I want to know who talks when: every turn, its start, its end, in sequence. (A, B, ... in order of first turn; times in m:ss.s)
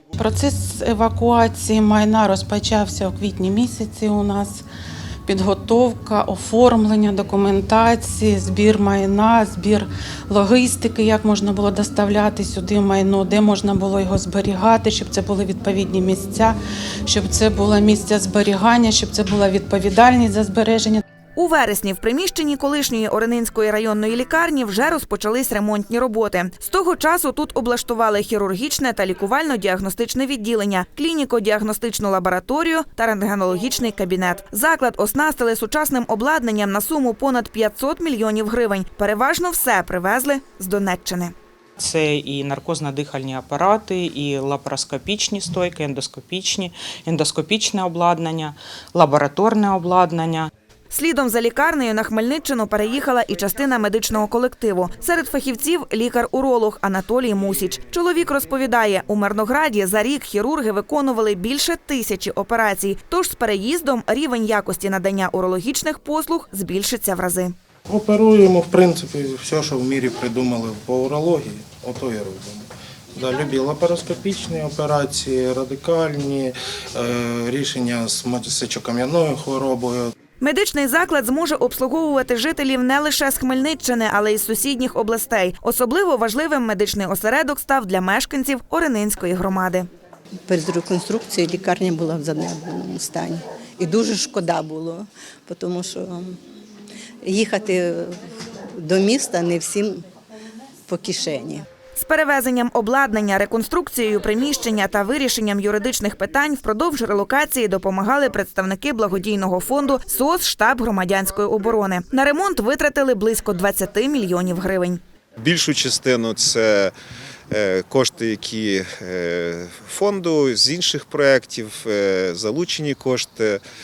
0:00.2-0:04.6 A
0:05.3-0:16.5 A
0:17.1-0:21.0 A
0:21.4-0:41.3 B
0:41.8-0:50.5 C
0:50.9-1:07.5 B
1:07.9-1:20.1 D
1:20.4-1:29.9 B
1:30.5-1:36.4 E
1:37.2-1:38.2 E
1:38.7-1:40.0 E
1:40.9-1:41.6 E
1:42.0-1:55.0 B
1:55.4-1:56.9 F
1:57.5-2:03.6 F